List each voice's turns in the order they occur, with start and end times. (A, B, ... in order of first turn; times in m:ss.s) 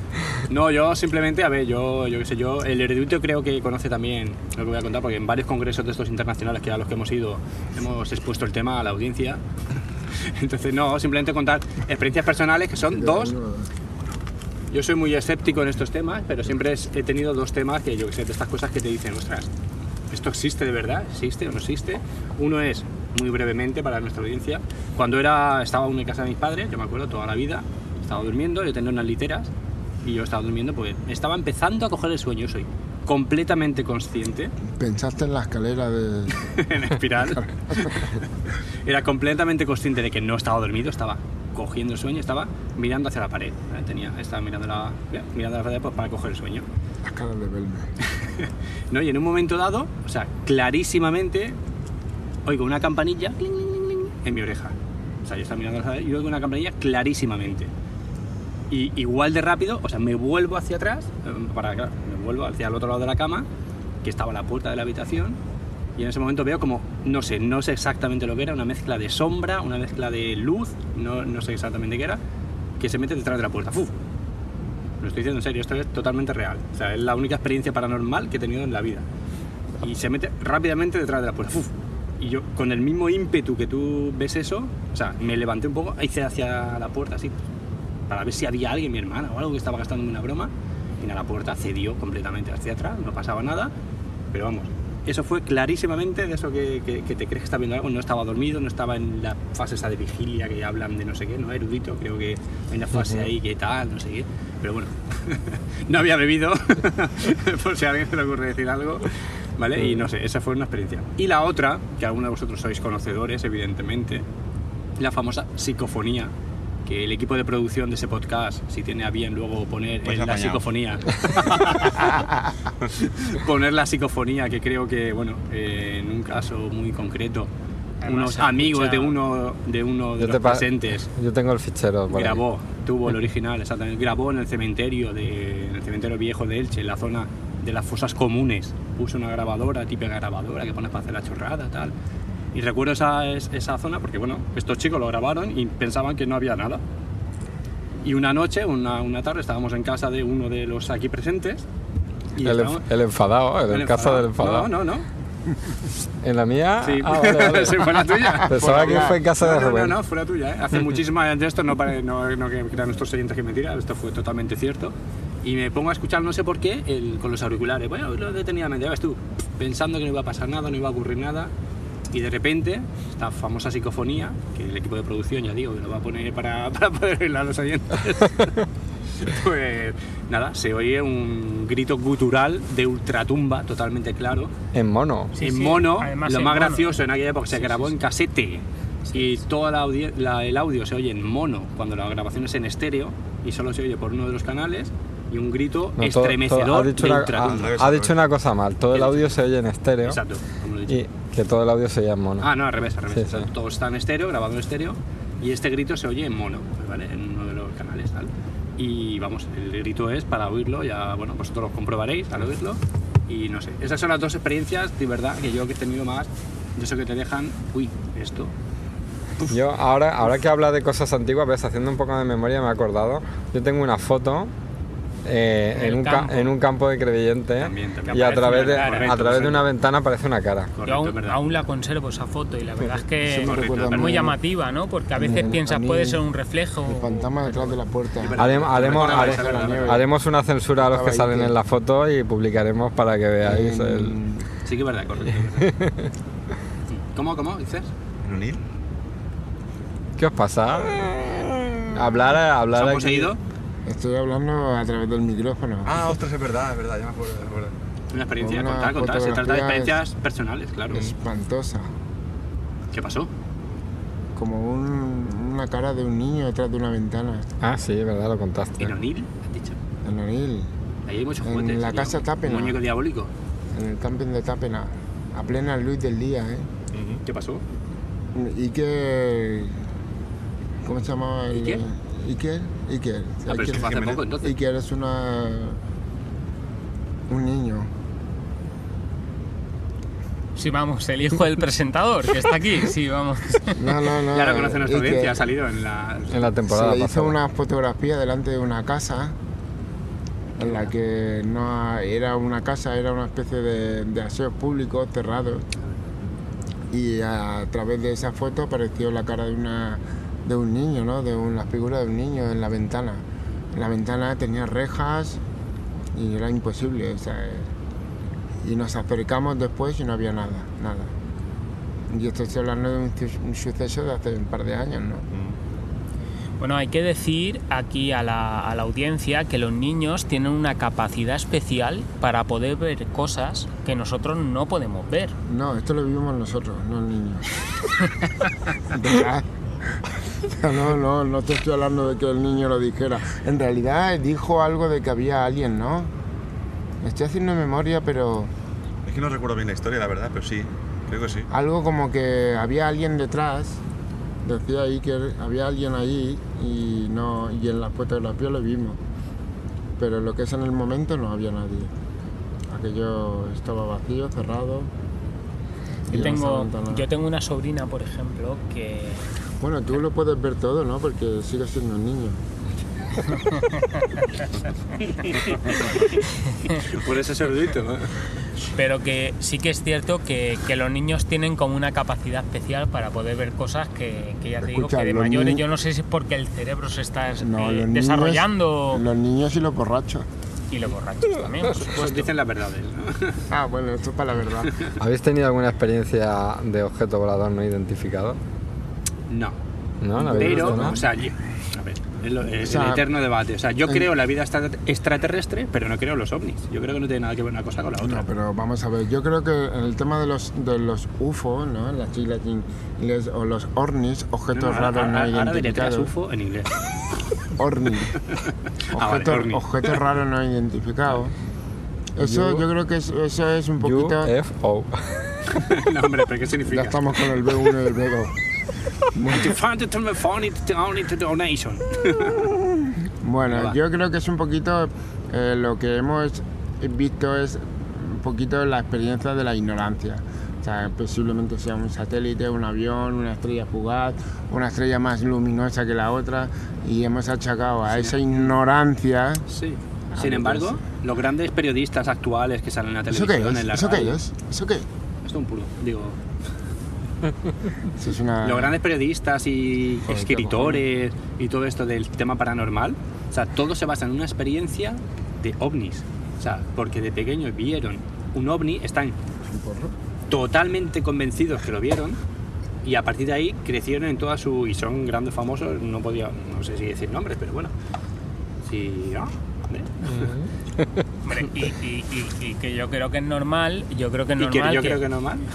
0:00.5-0:09.4 A
0:10.2-0:13.3 A
0:12.9-0:13.7 B
0:14.7-0:19.5 A
0:20.1-0:29.5 A
0:30.0-0:34.5 A
0:34.6-0:38.1 B
0:36.4-0:38.2 A
0:38.8-0:46.6 A
0:47.0-0:47.9 B
0:48.1-0:51.6 A
0:52.4-0:57.7 A
0:58.7-1:03.4 A
1:04.0-1:05.4 A
1:06.0-1:12.2 A
1:12.8-1:13.9 A
1:15.0-1:19.0 A
1:19.8-1:27.4 A
1:28.1-1:33.7 A
1:34.3-1:54.2 A
1:42.9-1:43.3 C
1:49.8-1:50.0 C
1:55.0-1:56.3 A
1:56.8-2:02.2 A
2:00.0-2:00.6 D
2:02.9-2:07.5 A
2:08.0-2:09.2 E
2:08.0-2:11.1 A
2:10.2-2:12.4 C
2:12.1-2:21.9 A
2:22.5-2:26.8 A
2:28.0-2:31.6 A
2:32.3-2:32.8 A
2:32.4-2:34.7 C
2:33.7-2:35.0 A
2:36.2-2:40.0 C
2:36.8-2:51.5 A
2:38.2-2:39.2 B
2:52.1-3:04.5 A
3:04.7-3:05.3 C
3:05.3-3:07.0 E
3:05.4-3:17.7 A
3:07.5-3:07.9 E
3:09.1-3:09.4 E
3:16.0-3:20.2 C
3:17.4-3:18.2 D
3:18.9-3:19.3 A
3:20.0-3:21.0 A
3:20.9-3:22.5 C
3:22.4-3:38.5 A
3:23.1-3:23.5 C
3:39.5-3:44.5 C
3:45.2-3:50.7 C
3:45.7-3:46.5 E
3:47.6-3:49.6 A
3:48.1-3:49.1 E
3:50.8-3:51.4 A
3:50.8-3:57.8 E
3:53.2-3:54.4 B
3:53.3-3:54.3 A
3:55.2-3:56.2 B
3:56.9-4:00.0 B
3:58.2-4:00.0 A
3:58.4-4:04.2 C
4:00.8-4:01.5 B
4:03.4-4:04.4 B
4:04.6-4:05.7 A
4:05.3-4:06.1 C
4:06.9-4:07.9 A
4:08.2-4:08.6 D
4:10.2-4:13.3 C
4:12.7-4:13.4 A
4:13.8-4:16.0 B
4:15.8-4:17.7 D
4:18.1-4:21.1 A
4:18.4-4:20.0 B
4:20.9-4:21.9 B
4:22.9-4:23.3 A
4:24.3-4:27.5 B
4:27.6-4:28.9 C
4:28.8-4:29.8 A
4:30.0-4:30.7 B
4:31.1-4:33.3 A
4:31.4-4:32.8 B
4:33.7-4:36.7 B
4:36.9-4:37.2 D
4:37.2-4:37.6 A
4:38.3-4:39.8 B
4:40.8-4:45.8 B
4:41.5-4:41.8 A
4:43.5-4:44.5 A
4:43.7-4:44.2 D
4:47.3-4:47.9 B
4:50.6-4:53.8 E
4:53.7-4:55.4 B
4:54.3-4:56.5 A
4:56.3-4:57.4 C
4:56.6-4:59.4 B
5:00.6-5:05.6 B
5:00.6-5:00.9 A
5:06.9-5:15.4 B
5:16.1-5:17.7 B
5:18.6-5:21.1 B
5:22.1-5:25.3 B
5:26.6-5:35.4 E
5:35.5-5:37.5 B
5:38.8-5:39.4 B
5:40.4-5:46.1 B
5:47.0-5:48.5 B
5:49.0-5:51.5 D
5:51.5-5:53.8 B
5:54.4-5:59.0 B
6:00.0-6:01.9 B
6:02.7-6:04.9 B
6:06.1-6:07.0 B
6:06.1-6:09.4 E
6:09.6-6:12.4 B
6:13.4-6:14.2 E
6:15.2-6:15.9 A
6:16.8-6:18.1 A
6:18.7-6:29.0 E
6:24.6-6:25.6 B
6:27.4-6:30.3 B
6:30.7-6:32.0 E
6:31.4-6:32.2 C
6:31.7-6:33.4 A
6:33.5-6:34.8 B
6:34.9-6:38.4 C
6:39.3-6:39.6 A
6:40.0-6:41.0 C
6:40.2-6:41.0 B
6:40.2-6:48.3 A
6:42.6-6:43.1 B
6:48.0-6:56.1 B
6:54.5-6:56.7 A
6:57.5-6:58.2 B
6:58.3-7:00.0 A
6:58.9-7:01.3 B
7:02.2-7:04.3 B
7:02.2-7:02.6 C
7:03.8-7:05.6 C
7:05.5-7:07.6 A
7:06.7-7:08.3 B
7:09.1-7:09.6 B
7:09.3-7:12.5 A
7:12.9-7:29.4 B
7:13.5-7:13.8 A
7:27.9-7:28.5 A
7:29.5-7:34.2 A
7:30.1-7:30.8 B
7:33.1-7:34.9 B
7:35.2-7:36.2 A
7:38.0-7:38.8 B
7:38.4-7:49.2 A
7:40.1-7:40.8 B
7:49.5-7:49.9 B
7:50.3-7:52.2 A
7:52.8-7:57.7 A
7:58.6-8:00.0 A
8:00.0-8:00.5 C
8:01.2-8:05.0 E
8:04.4-8:05.5 A